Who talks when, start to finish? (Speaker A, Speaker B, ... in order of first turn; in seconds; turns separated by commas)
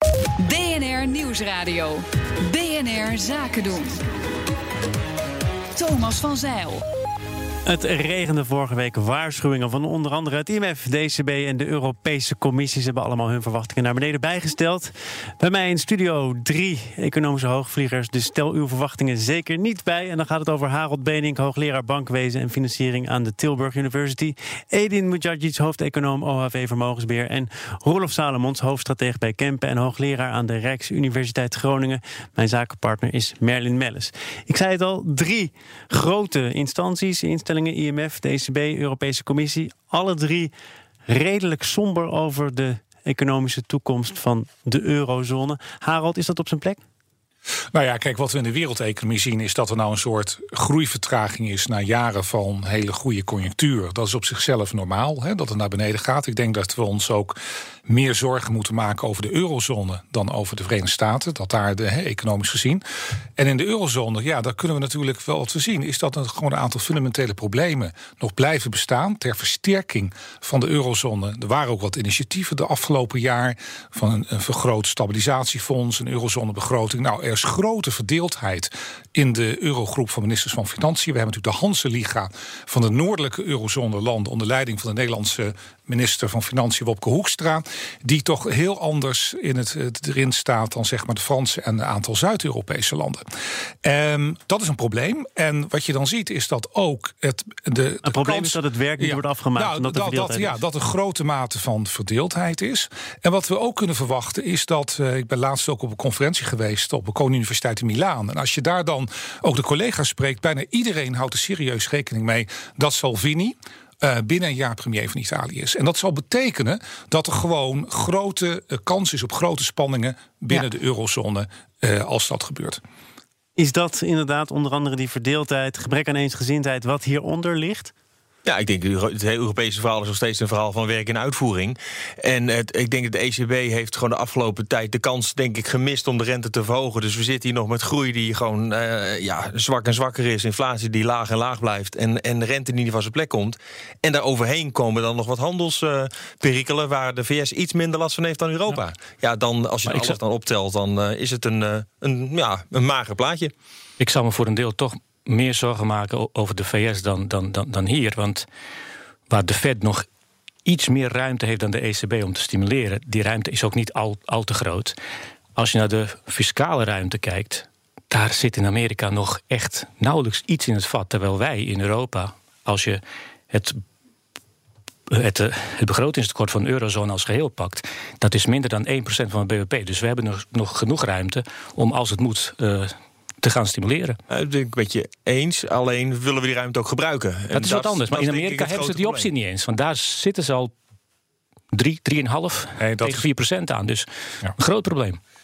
Speaker A: 0.4-4.0, Speaker A: 5.8-6.8, Speaker B: 7.7-40.5, Speaker B: 41.1-46.8, Speaker C: 47.7-62.8, Speaker C: 63.4-93.2, Speaker C: 93.8-122.8, Speaker B: 98.0-100.6, Speaker B: 123.6-127.9, Speaker D: 128.4-153.5, Speaker E: 149.9-150.2, Speaker E: 154.0-158.5, Speaker E: 159.3-160.1, Speaker E: 160.7-165.0, Speaker E: 165.6-173.8, Speaker E: 175.1-184.2, Speaker D: 184.3-189.3, Speaker E: 187.5-190.7, Speaker E: 191.7-195.2, Speaker C: 192.8-193.3